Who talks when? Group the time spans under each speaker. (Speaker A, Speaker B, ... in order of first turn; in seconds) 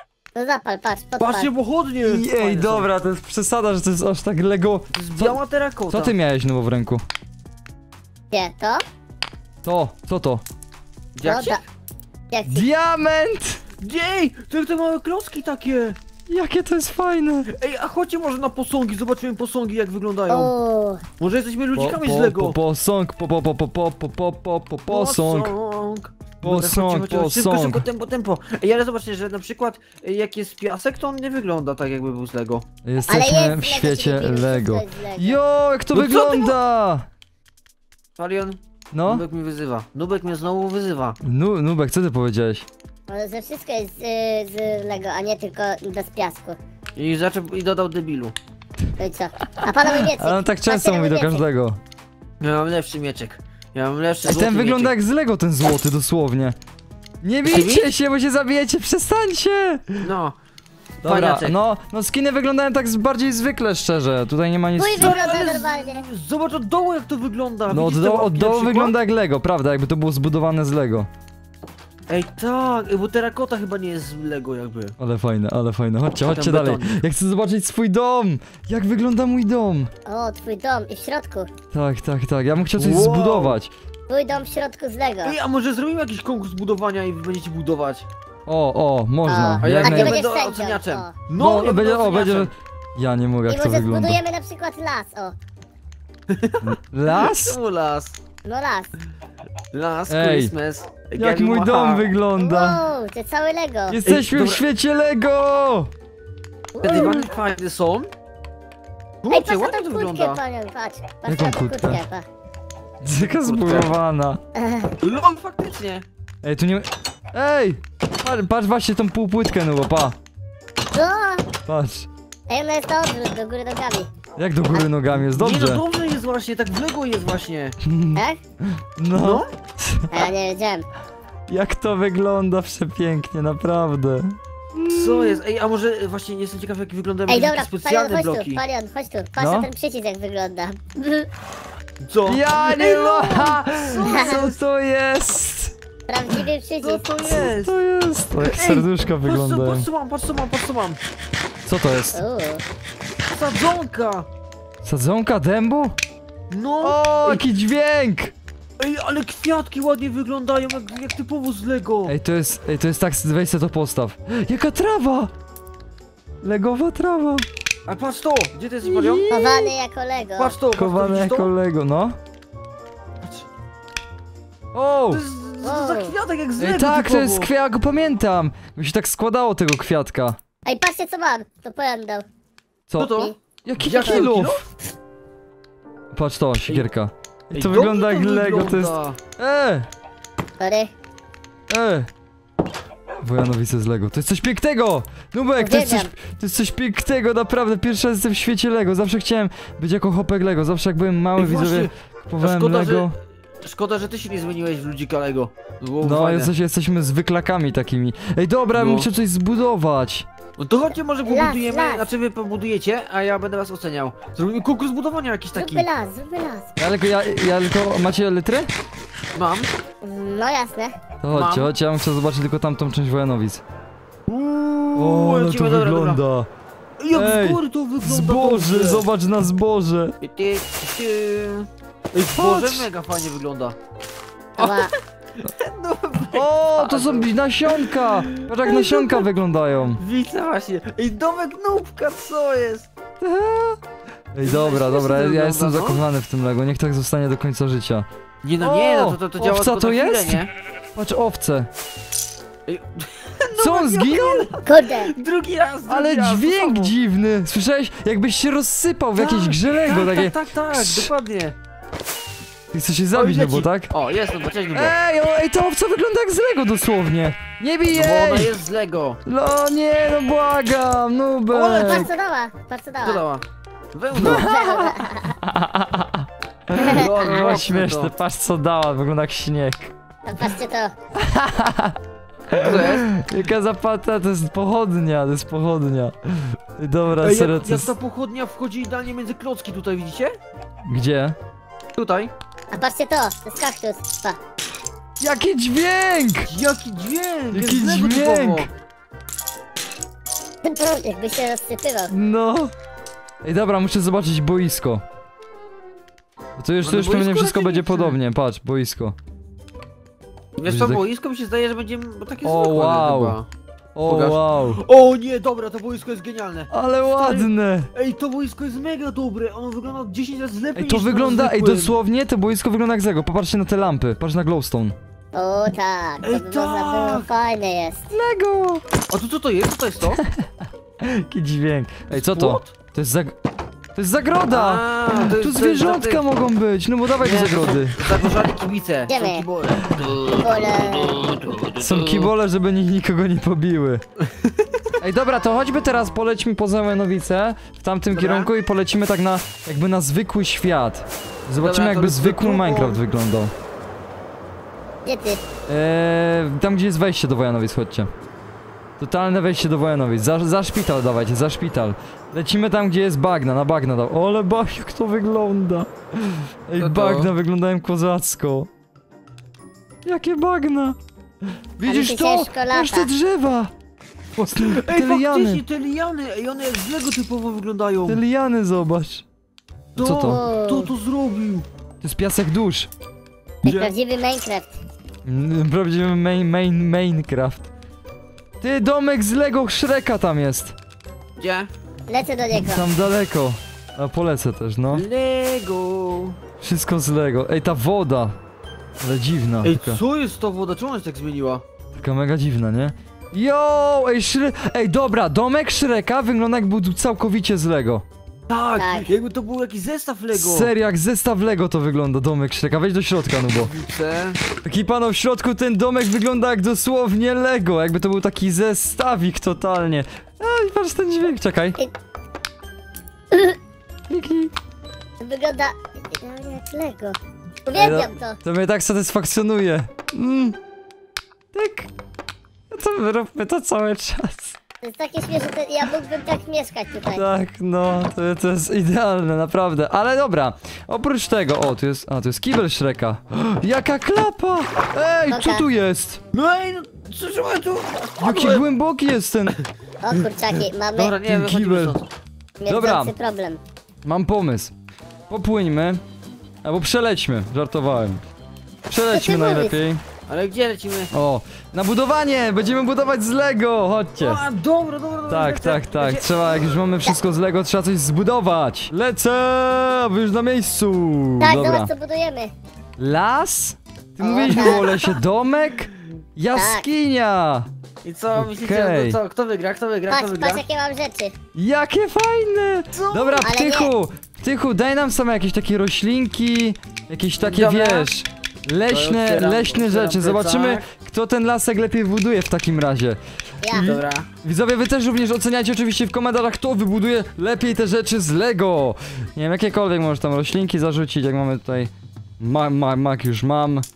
Speaker A: 0.3-1.5, 8.3-8.8, 11.2-11.6, 12.3-12.7, 20.3-21.0, 33.1-35.4, 43.1-46.6, 49.0-51.5, 64.8-66.0, 80.1-81.5, 84.1-85.4, 89.3-91.1, 93.5-95.4, 98.5-98.9, 102.4-104.0, 106.7-107.2, 109.3-112.2, 114.6-114.9, 120.9-121.5, 122.5-124.1, 128.2-128.4, 130.1-130.8, 137.3-141.3, 144.0-144.4, 146.1-147.1, 152.1-152.6, 169.3-170.5, 175.6-176.1, 180.7-182.2, 190.6-190.9, 195.6-196.1, 211.2-212.1, 215.6-216.7, 220.0-221.0, 234.6-234.9, 254.7-255.1, 271.8-273.2, 274.2-275.3, 276.7-277.0, 280.2-280.9, 292.7-294.4, 300.6-302.1, 325.3-328.1, 339.1-339.5, 340.4-341.2, 355.1-355.4, 371.8-373.1, 380.1-380.9, 383.6-384.8, 392.1-392.9, 408.8-409.1, 423.3-423.6, 425.2-428.4, 434.8-437.3, 445.3-445.6, 450.0-451.1, 452.6-453.6, 459.1-459.8, 471.4-472.5, 474.2-474.9, 476.6-476.9, 480.1-481.4, 483.4-483.9, 493.6-493.9
Speaker B: 1.2-2.9, 4.9-6.2, 11.2-11.6, 13.8-16.0, 17.5-20.5, 21.2-22.6, 24.9-32.6, 35.9-36.5, 38.2-41.2, 47.0-48.4, 52.4-55.0, 57.5-57.9, 60.0-60.4, 61.0-61.6, 64.9-68.9, 72.1-74.9, 76.3-77.0, 82.8-83.6, 85.2-88.1, 89.6-92.5, 96.3-98.2, 99.7-102.1, 104.1-104.6, 106.8-108.1, 109.2-110.4, 113.2-113.9, 115.0-116.0, 125.2-127.8, 129.2-129.5, 134.9-138.6, 142.0-144.6, 146.8-147.7, 148.4-151.0, 153.3-154.3, 156.5-157.5, 158.8-162.1, 167.9-169.3, 170.4-171.5, 173.2-173.5, 175.1-177.5, 183.0-184.7, 187.5-189.2, 201.4-206.5, 208.7-209.1, 210.6-215.9, 219.3-219.7, 221.3-221.7, 224.3-226.2, 227.0-229.1, 230.2-233.8, 234.6-239.3, 240.0-242.9, 244.4-246.0, 248.4-250.5, 252.7-256.9, 259.2-261.5, 263.1-264.9, 267.9-269.2, 271.5-272.1, 273.0-274.5, 276.9-278.1, 282.5-283.1, 287.2-290.3, 292.0-292.3, 296.5-298.7, 306.8-308.2, 310.6-313.5, 314.1-322.0, 326.2-327.3, 329.1-330.2, 332.1-332.7, 334.5-336.3, 337.2-342.3, 348.1-348.5, 351.6-353.0, 366.8-367.3, 374.4-378.2, 379.9-381.7, 383.6-383.9, 391.4-391.7, 394.9-396.4, 399.6-401.6, 408.5-410.7, 413.7-414.4, 446.3-448.6, 450.9-452.1, 460.3-461.1, 464.2-466.7, 474.5-475.1, 478.0-480.6, 482.9-483.6, 487.4-488.1, 488.9-490.9, 493.8-494.3
Speaker C: 2.0-5.4, 5.9-7.0, 9.6-10.4, 12.5-13.6, 16.3-17.5, 21.8-25.5, 26.4-27.8, 32.9-37.1, 38.9-39.2, 41.2-42.7, 49.6-51.8, 54.2-56.6, 57.2-60.1, 61.0-65.2, 67.7-71.1, 75.0-79.9, 81.7-83.7, 88.5-90.2, 91.4-94.2, 96.6-97.6, 100.1-100.5, 101.2-102.8, 103.9-105.9, 106.8-107.2, 111.2-112.0, 113.0-114.4, 116.4-120.2, 121.7-122.1, 124.4-125.8, 127.8-128.2, 128.8-130.3, 131.5-135.4, 139.4-139.7, 142.3-145.8, 147.2-149.9, 151.7-152.2, 154.8-156.0, 156.8-158.3, 162.1-165.3, 166.4-167.5, 168.8-169.7, 170.7-172.2, 174.7-175.2, 176.6-180.4, 182.9-184.6, 186.1-189.9, 191.7-192.1, 193.2-203.2, 206.0-210.3, 216.8-218.7, 221.2-223.6, 225.0-226.5, 227.1-230.2, 232.3-232.9, 236.3-240.0, 243.2-243.8, 244.3-248.1, 248.6-250.4, 250.9-251.7, 253.6-254.5, 255.9-261.1, 262.7-263.9, 264.7-268.6, 269.3-272.1, 274.1-279.9, 281.2-282.0, 282.5-287.9, 290.9-291.4, 295.2-296.5, 297.5-298.7, 302.1-302.7, 303.4-305.0, 306.6-309.2, 310.6-311.0, 312.4-313.4, 313.9-314.8, 316.7-317.9, 320.8-325.0, 328.1-328.8, 330.2-330.4, 331.0-333.4, 333.9-338.4, 341.8-344.0, 345.0-353.5, 355.7-358.1, 359.0-368.7, 370.1-371.0, 371.8-373.7, 374.5-375.6, 378.1-379.2, 380.0-380.4, 382.0-382.9, 385.2-387.7, 388.6-390.8, 392.6-395.1, 396.6-398.4, 399.0-400.0, 401.9-408.0, 410.3-413.7, 414.6-421.8, 424.1-424.5, 427.8-430.6, 431.5-431.9, 432.7-434.6, 437.1-446.2, 448.2-449.6, 451.2-452.0, 452.7-453.1, 454.0-454.7, 455.3-456.0, 456.6-458.2, 458.9-460.0, 461.1-464.4, 465.3-471.9, 473.0-477.7, 478.4-479.2, 481.5-503.9